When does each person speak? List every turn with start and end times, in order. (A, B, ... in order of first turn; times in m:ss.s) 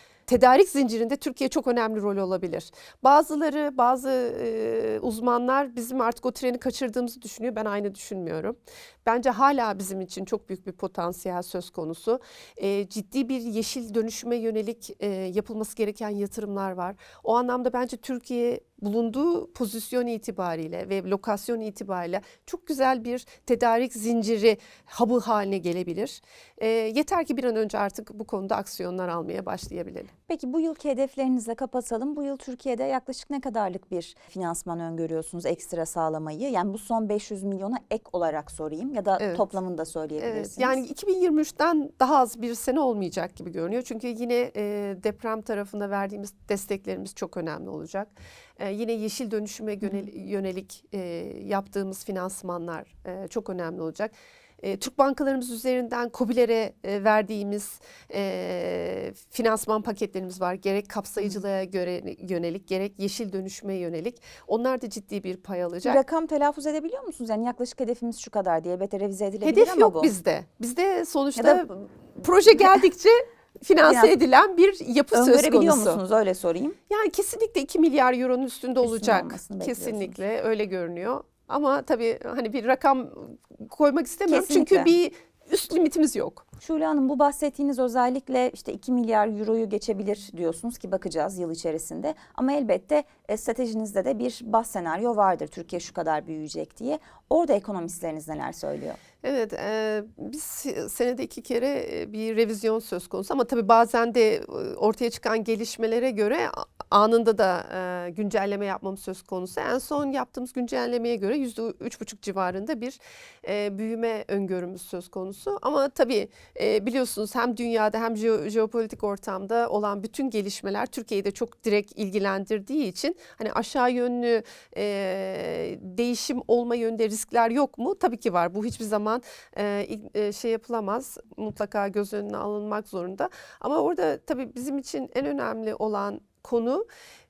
0:00.3-0:30.1 A
0:30.3-0:40.8 B
0:39.2-0:39.4 A
0:40.2-1:06.0 A
0:49.8-0:50.1 B
1:05.8-1:10.1 B
1:09.4-1:16.0 A
1:11.4-1:11.6 B
1:13.8-1:14.1 B
1:15.1-1:16.8 B
1:16.9-1:26.4 A
1:18.8-1:20.2 B
1:24.3-1:24.9 B
1:26.6-1:39.0 B
1:39.2-2:16.8 A